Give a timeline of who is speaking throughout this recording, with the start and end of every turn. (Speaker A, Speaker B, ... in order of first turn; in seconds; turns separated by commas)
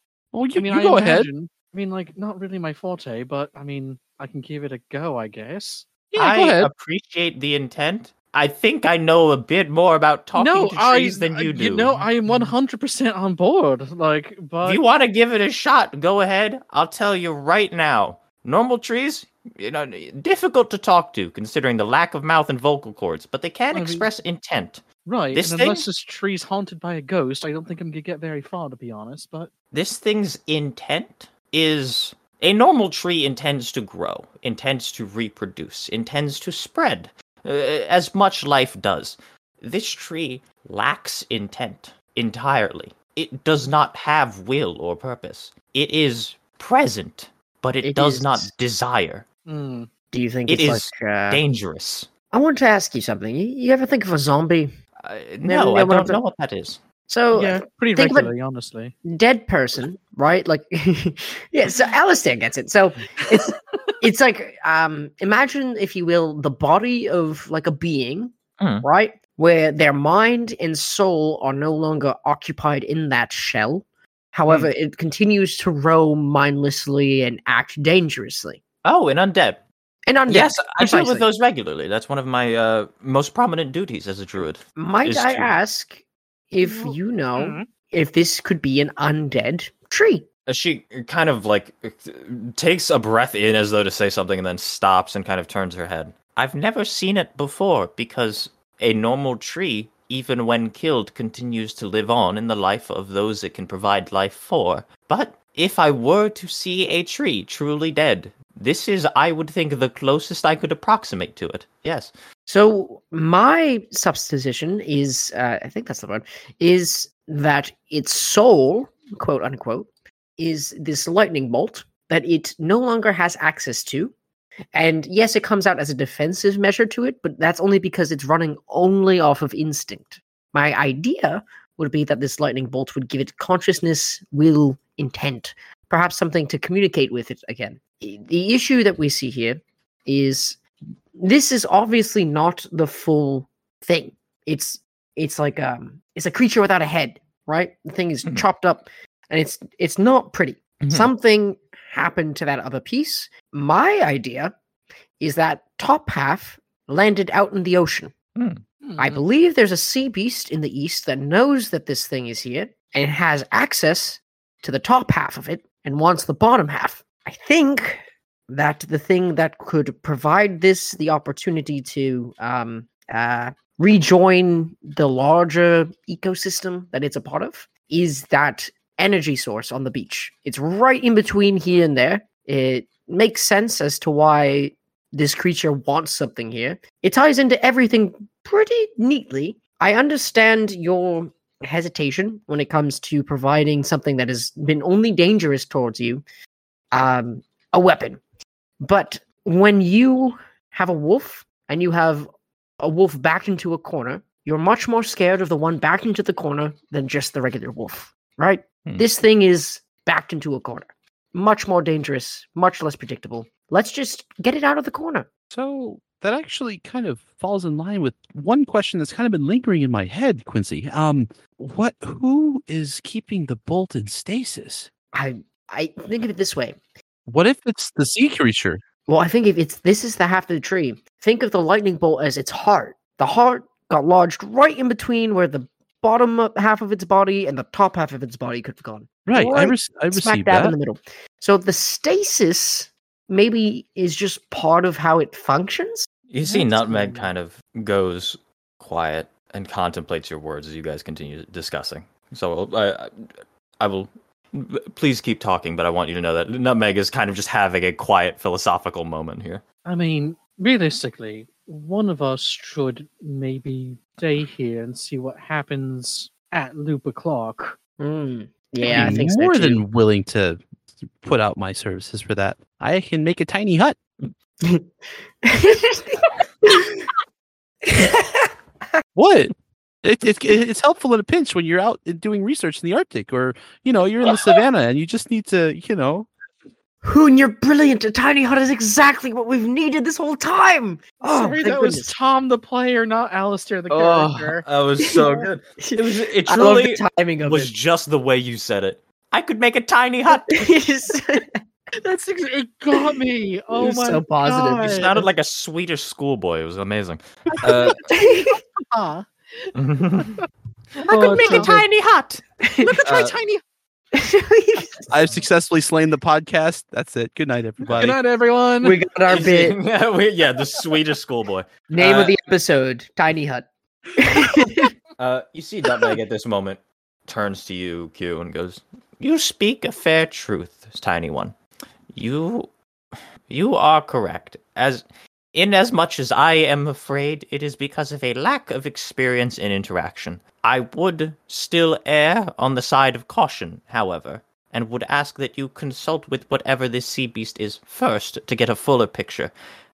Speaker A: 0.3-1.3, Speaker B: 0.6-5.9, Speaker A: 6.1-6.7, Speaker C: 6.2-12.5, Speaker B: 10.4-14.8, Speaker C: 14.6-25.9, Speaker B: 23.7-24.1, Speaker B: 25.1-29.5, Speaker C: 29.7-49.2, Speaker D: 47.8-48.5, Speaker B: 49.5-49.9, Speaker D: 50.1-51.4, Speaker C: 50.5-52.1, Speaker D: 52.3-54.7, Speaker C: 55.0-56.8, Speaker D: 55.5-56.2, Speaker D: 57.1-58.3, Speaker B: 57.3-58.9, Speaker D: 59.0-78.6, Speaker B: 63.2-63.9, Speaker C: 68.6-68.9, Speaker C: 78.8-79.6, Speaker D: 80.1-81.3, Speaker C: 80.3-85.5, Speaker D: 84.8-90.3, Speaker B: 86.6-87.7, Speaker C: 90.5-112.1, Speaker D: 112.5-124.1, Speaker D: 124.7-140.6, Speaker D: 141.2-154.5, Speaker C: 150.8-151.1, Speaker D: 155.2-158.1, Speaker C: 158.4-158.6, Speaker B: 158.8-159.2, Speaker D: 159.0-196.2, Speaker D: 196.9-198.2, Speaker D: 198.8-202.3, Speaker D: 202.8-215.3, Speaker A: 215.5-224.9, Speaker D: 225.1-226.8, Speaker A: 227.3-228.8, Speaker D: 229.1-246.1, Speaker A: 239.3-240.8, Speaker C: 246.3-253.1, Speaker B: 246.5-247.3, Speaker C: 253.8-259.6, Speaker B: 259.9-267.8, Speaker D: 268.0-269.8, Speaker B: 268.8-269.2, Speaker A: 268.9-274.0, Speaker D: 274.6-274.9, Speaker D: 275.4-277.1, Speaker D: 277.8-278.5, Speaker A: 279.1-286.3, Speaker D: 287.0-292.1, Speaker B: 291.2-294.6, Speaker C: 294.1-300.6, Speaker D: 295.0-295.3, Speaker D: 295.8-297.7, Speaker D: 300.5-301.5, Speaker B: 302.0-305.1, Speaker D: 303.8-305.3, Speaker C: 304.8-308.0, Speaker A: 307.6-308.0, Speaker B: 307.9-310.4, Speaker D: 308.0-308.6, Speaker C: 309.8-310.4, Speaker C: 311.0-312.4, Speaker B: 311.1-311.8, Speaker D: 311.1-311.9, Speaker D: 312.6-313.0, Speaker B: 312.8-313.6, Speaker A: 313.1-313.4, Speaker D: 314.1-315.1, Speaker A: 315.1-318.2, Speaker B: 317.9-319.0, Speaker D: 318.8-319.8, Speaker C: 319.3-322.4, Speaker D: 321.9-324.9, Speaker C: 325.2-331.6, Speaker C: 332.1-332.7, Speaker C: 333.5-349.5